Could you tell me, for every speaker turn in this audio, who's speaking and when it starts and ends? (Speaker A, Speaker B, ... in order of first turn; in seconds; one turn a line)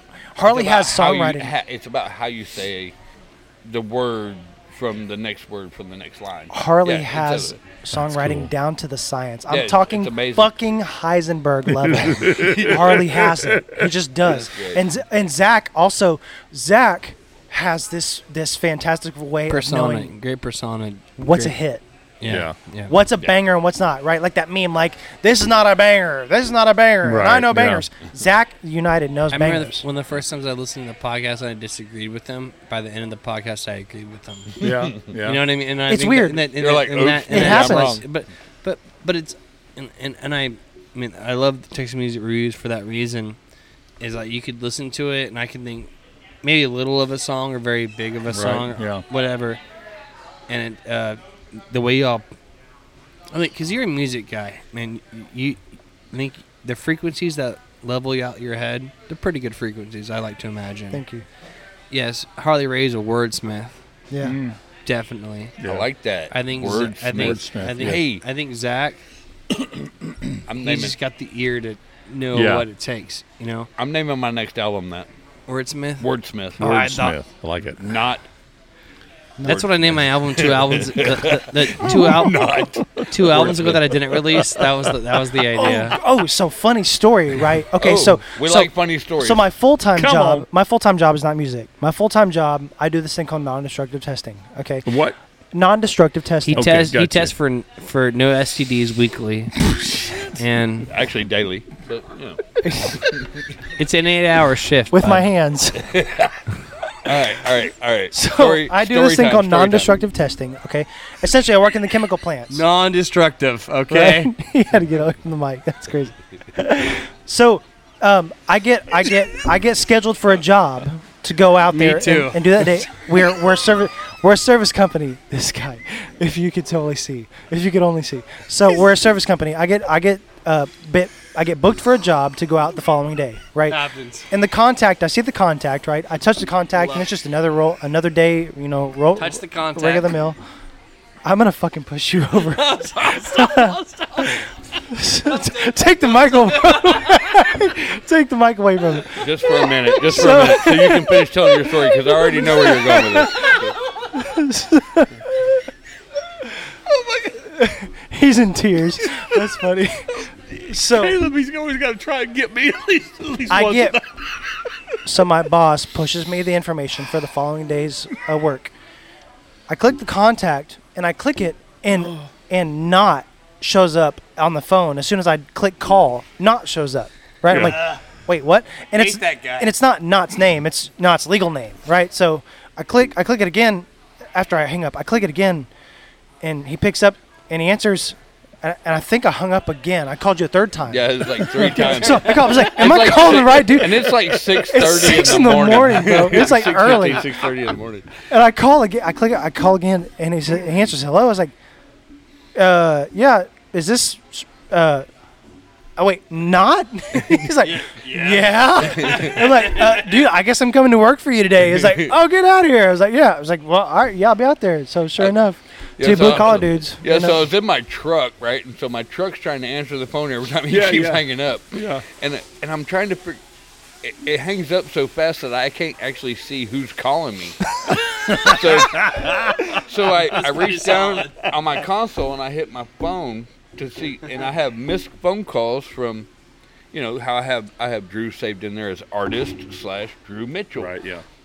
Speaker A: 0.4-1.5
Speaker B: 0.4-3.0
Speaker B: 3.6-7.6
Speaker A: 6.5-20.1
Speaker C: 7.9-8.5
Speaker B: 9.5-10.5
Speaker C: 11.7-13.8
Speaker B: 12.2-13.0
Speaker B: 14.2-14.9
Speaker D: 19.5-21.6
Speaker A: 21.2-21.8
Speaker D: 22.2-22.9
Speaker C: 22.2-22.6
Speaker A: 22.9-29.9
Speaker C: 27.0-27.9
Speaker D: 29.3-34.6
Speaker C: 34.6-35.5
Speaker B: 34.6-35.0
Speaker D: 35.2-43.4
Speaker A: 35.9-36.5
Speaker B: 36.6-38.0
Speaker A: 37.3-38.0
Speaker D: 44.0-45.9
Speaker D: 46.4-49.6
Speaker C: 48.3-49.0
Speaker D: 50.5-52.3
Speaker D: 53.3-61.0
Speaker A: 60.9-61.3
Speaker D: 61.9-63.8
Speaker A: 64.1-64.4
Speaker C: 64.2-64.6
Speaker D: 64.8-65.5
Speaker C: 65.6-65.9
Speaker B: 65.6-68.2
Speaker D: 66.3-69.0
Speaker C: 67.2-68.0
Speaker B: 70.5-71.0
Speaker D: 70.6-73.7
Speaker C: 72.3-72.7
Speaker B: 73.8-75.1
Speaker D: 75.5-76.1
Speaker B: 76.0-76.7
Speaker C: 76.6-78.0
Speaker A: 76.6-77.2
Speaker B: 77.8-78.2
Speaker D: 79.4-82.5
Speaker B: 79.4-84.9
Speaker D: 83.0-86.0
Speaker A: 85.5-94.9
Speaker B: 87.8-89.5
Speaker C: 90.0-90.5
Speaker C: 94.8-95.2
Speaker A: 95.5-96.7
Speaker D: 96.5-99.6
Speaker C: 96.5-97.3
Speaker D: 100.3-100.9
Speaker B: 100.9-102.4
Speaker A: 102.6-103.1
Speaker B: 103.1-103.4
Speaker D: 103.8-105.3
Speaker A: 104.9-106.0
Speaker B: 105.9-106.4
Speaker B: 107.0-110.0
Speaker A: 108.1-112.6
Speaker D: 112.5-114.3
Speaker A: 113.9-140.4
Speaker D: 121.7-122.9
Speaker D: 133.7-134.3
Speaker D: 136.8-137.1
Speaker D: 139.2-140.2
Speaker A: 141.2-143.8
Speaker D: 142.5-144.5
Speaker A: 144.9-155.6
Speaker B: 149.2-153.8
Speaker C: 156.9-157.3
Speaker A: 157.3-161.2
Speaker C: 159.0-159.5
Speaker C: 160.6-165.0
Speaker A: 163.5-164.0
Speaker A: 165.1-168.7
Speaker A: 169.7-185.7
Speaker C: 177.5-177.8
Speaker D: 179.0-179.7
Speaker A: 186.4-197.5
Speaker B: 190.9-198.2
Speaker C: 191.6-192.1
Speaker A: 198.3-201.5
Speaker A: 202.6-205.1
Speaker A: 206.0-217.4
Speaker B: 207.8-209.9
Speaker B: 211.8-212.1
Speaker B: 216.0-223.4
Speaker C: 220.7-222.1
Speaker B: 224.0-227.7
Speaker C: 227.8-229.9
Speaker B: 228.2-236.3
Speaker D: 230.4-231.3
Speaker B: 236.9-241.0
Speaker C: 240.8-241.2